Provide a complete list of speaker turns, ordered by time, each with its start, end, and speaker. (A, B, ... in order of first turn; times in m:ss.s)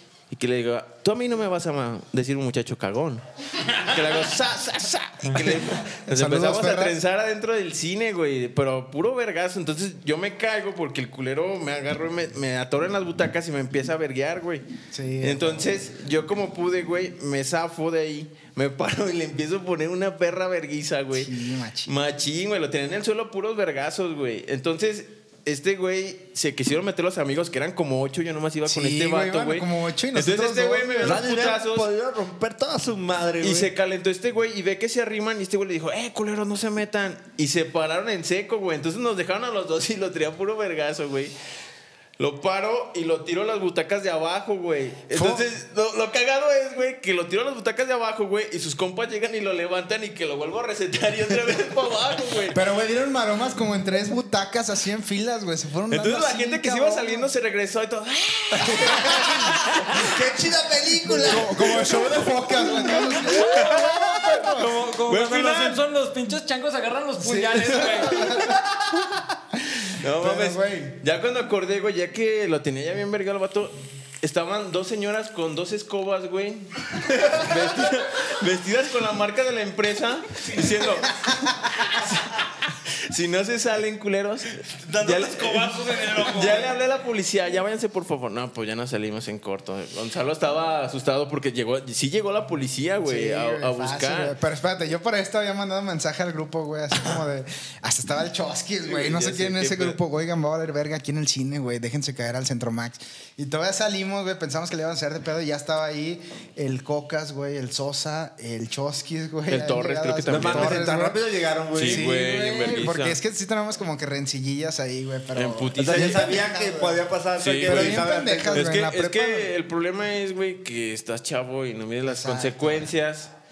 0:00.3-0:14.6 A
0:05.4-0:07.0 B
0:14.9-0:15.8 B
0:15.2-0:21.3 A
0:21.1-0:21.9 B
0:21.8-0:31.9 A
0:28.6-0:31.2 B
0:31.0-0:33.7 C
0:33.4-0:41.3 A
0:42.2-0:52.6 A
0:45.1-0:45.5 B
0:52.5-0:57.3 B
0:55.9-1:00.1 A
0:58.6-0:59.4 B
0:58.7-1:02.1 C
1:01.1-1:04.8 B
1:03.3-1:08.2 D
1:05.1-1:05.8 A
1:07.2-1:09.0 B
1:09.8-1:34.4 A
1:10.0-1:11.0 B
1:24.9-1:26.6 C
1:25.0-1:26.6 D
1:33.0-1:51.2 B
1:38.9-1:40.0 A
1:49.5-1:50.8 A
1:50.3-1:52.1 C
1:51.7-1:53.2 A
1:51.7-1:57.0 B
1:55.3-1:56.4 A
1:55.8-1:58.7 C
1:57.4-2:03.3 A
1:57.6-1:59.5 B
2:02.0-2:02.9 B